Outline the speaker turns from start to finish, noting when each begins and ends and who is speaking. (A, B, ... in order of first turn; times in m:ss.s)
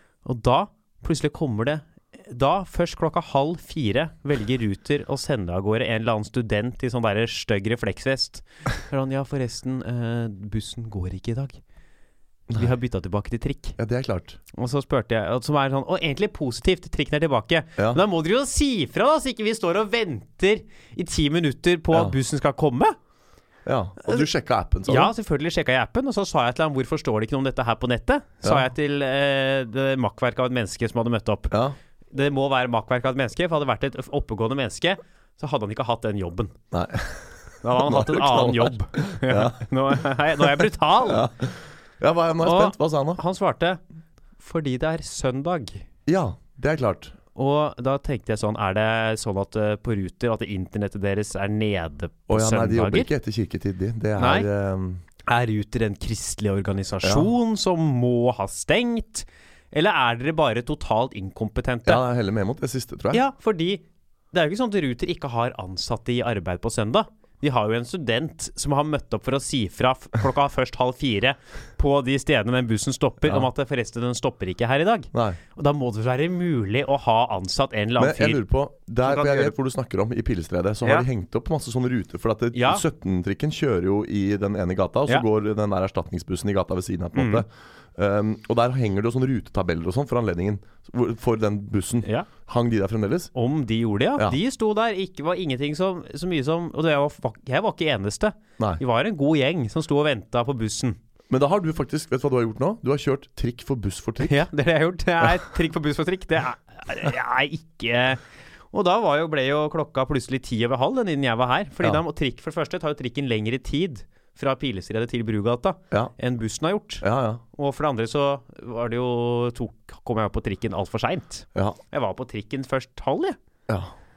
0:00.2-0:11.6 A
0:12.5-0:13.8 A
0:13.8-0:14.4 B
0:14.5-0:23.0 A
0:23.7-0:25.1 B
0:24.9-0:31.6 A
0:31.5-0:31.8 B
0:32.1-0:36.6 A
0:36.7-0:43.2 B
0:37.6-0:41.3 A
0:42.4-0:43.8 A
0:44.4-0:45.8 A
0:46.1-0:47.2 B
0:47.4-0:53.1 A
0:52.3-0:55.0 B
0:54.2-0:54.5 A
0:55.2-1:02.0 A
0:57.0-0:57.3 B
1:01.8-1:03.2 B
1:03.1-1:18.4 A
1:15.1-1:15.4 B
1:18.0-1:33.3 B
1:19.0-1:19.5 A
1:22.5-1:22.8 A
1:27.2-1:27.4 A
1:33.4-1:41.0 A
1:41.3-1:44.4 B
1:44.2-2:03.4 A
1:57.0-1:57.4 B